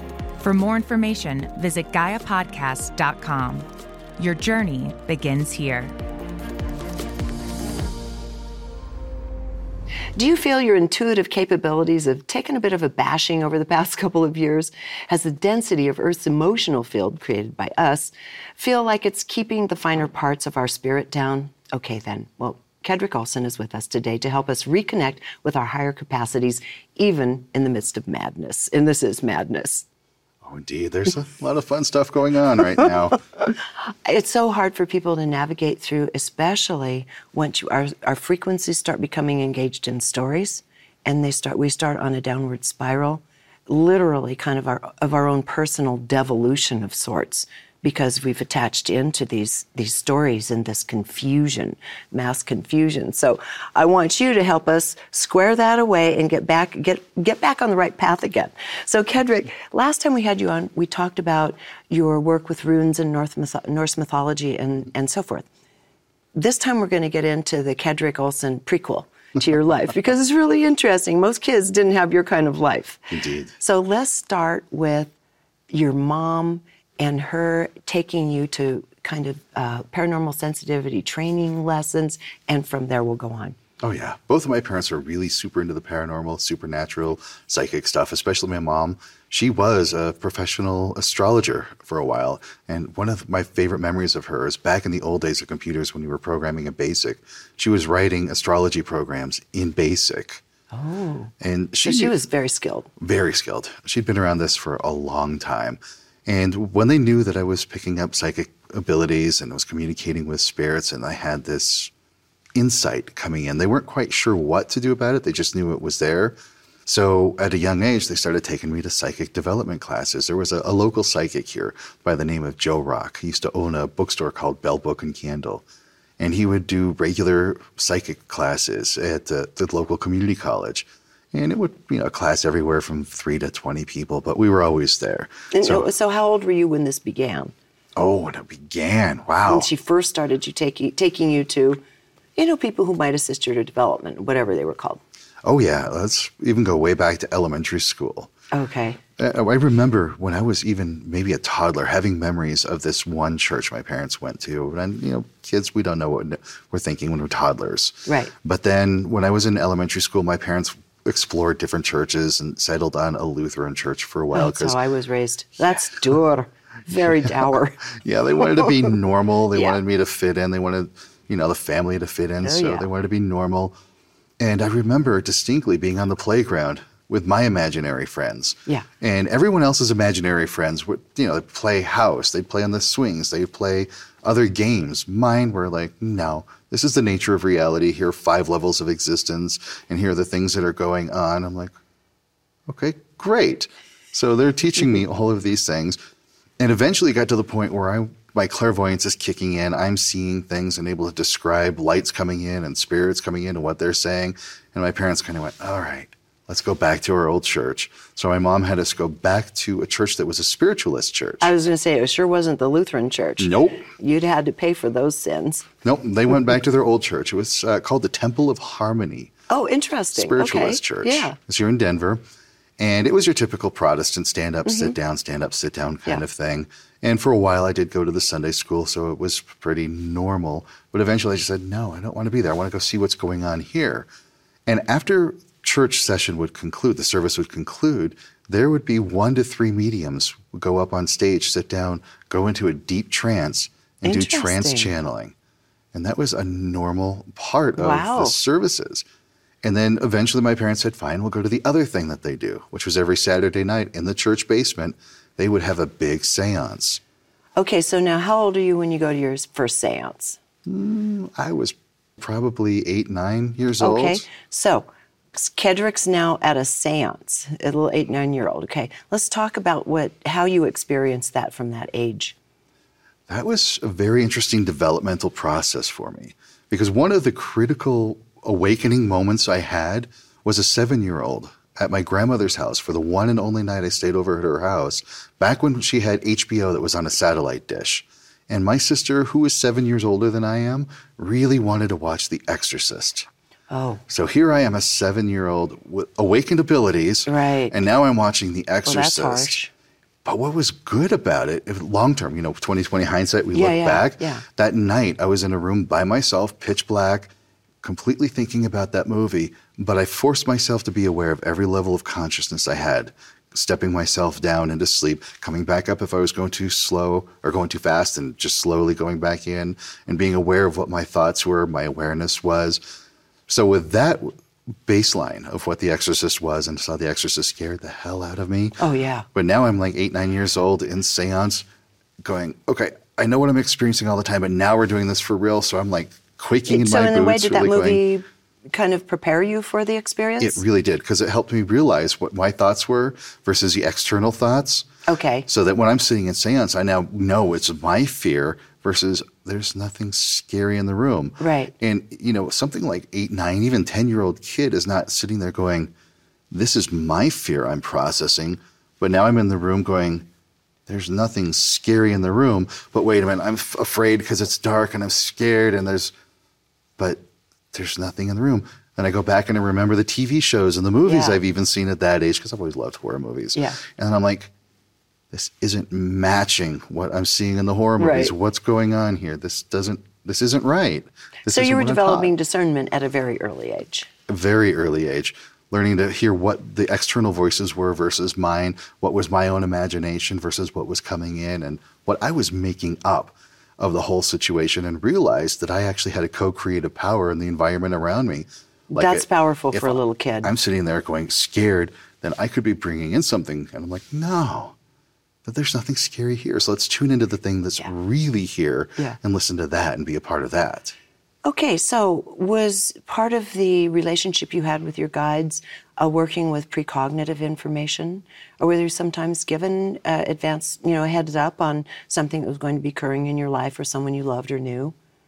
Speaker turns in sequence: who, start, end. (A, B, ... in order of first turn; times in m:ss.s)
0:00.4-0:05.9 A
0:10.2-0:29.8 B
0:30.4-0:33.2 C
0:33.8-1:05.4 B
1:06.3-1:15.1 B
1:13.1-1:13.5 C
1:15.7-1:23.6 B
1:23.8-1:40.4 C
1:40.7-1:41.3 B
1:41.4-1:42.1 C
1:41.8-1:42.9 B
1:43.0-1:51.9 C
1:52.5-2:05.6 C
2:06.2-2:15.9 C
2:15.5-2:17.5 B
2:18.0-2:19.7 C
2:19.5-2:21.8 B
2:22.4-2:25.0 B
2:25.4-2:28.3 C
2:28.5-2:29.0 B
2:29.2-2:44.8 C
2:38.0-2:38.3 B
2:44.3-2:47.9 B
2:47.1-2:53.8 C
2:48.4-2:48.8 B
2:49.5-2:49.8 B
2:52.4-2:52.8 B
2:54.4-3:11.7 C
3:12.7-3:16.0 C
3:16.6-3:31.5 C
3:31.4-3:35.7 B
3:33.4-3:33.8 C
3:35.8-3:39.3 C
3:39.5-3:41.4 B
3:40.1-3:42.2 C
3:42.8-3:54.1 C
3:44.6-3:44.9 B
3:54.6-4:05.3 C
4:04.0-4:04.9 B
4:05.9-4:09.0 C
4:07.8-4:08.4 B
4:09.6-4:17.0 C
4:17.6-4:20.4 B
4:20.6-4:24.2 C
4:23.8-4:32.3 B
4:33.3-4:53.3 C
4:53.7-4:54.0 B
4:54.1-4:59.6 C
4:57.3-4:57.8 B
4:58.8-4:59.7 B
5:00.2-5:07.3 C
5:03.5-5:04.4 B
5:07.8-5:22.8 C
5:23.5-5:28.8 C
5:28.8-5:29.2 B
5:29.3-5:31.6 C
5:32.2-5:38.0 C
5:36.7-5:40.6 B
5:40.4-5:44.9 C
5:45.1-5:45.5 B
5:45.5-5:55.9 C
5:51.4-5:51.7 B
5:56.5-6:00.3 C
6:00.9-6:06.1 C
6:07.0-6:14.5 C
6:11.0-6:11.4 B
6:15.3-6:22.3 C
6:18.0-6:18.3 B
6:21.4-6:24.1 B
6:24.3-6:44.7 C
6:38.9-6:40.5 B
6:45.4-6:51.0 C
6:51.4-7:04.9 B